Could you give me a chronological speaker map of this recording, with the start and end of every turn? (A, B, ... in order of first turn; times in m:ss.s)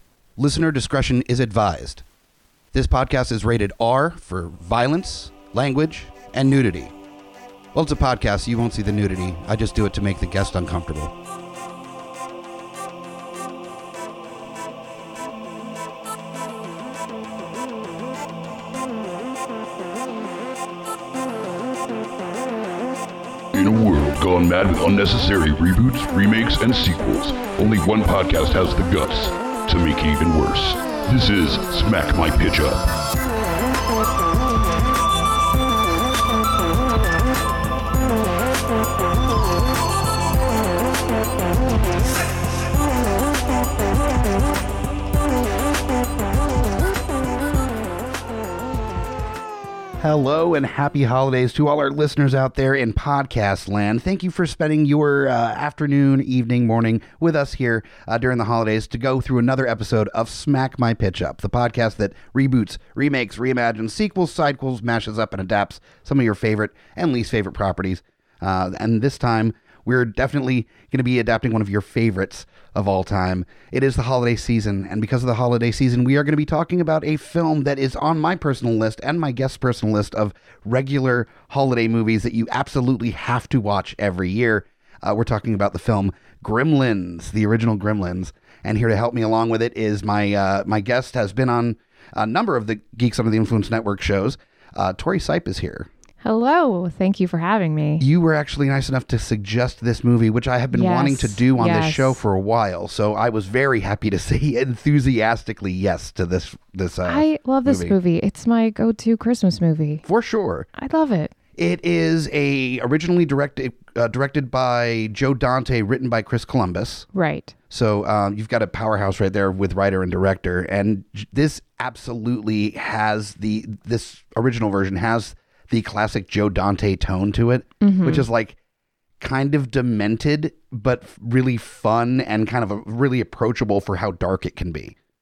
0:00.4-0:02.0 A
0:02.7-0:06.9 A
0:07.7-0:11.1 A
0:23.5-0:32.9 B
0:50.0-1:35.9 A
1:36.2-1:38.0 C
1:38.0-1:47.9 A
1:40.7-1:42.2 C
1:47.0-1:50.0 C
1:50.0-1:50.7 A
1:50.7-1:51.3 C
1:51.6-1:57.0 A
1:57.1-1:57.5 C
1:57.7-2:08.6 A
2:07.8-2:08.2 C
2:09.2-2:14.9 A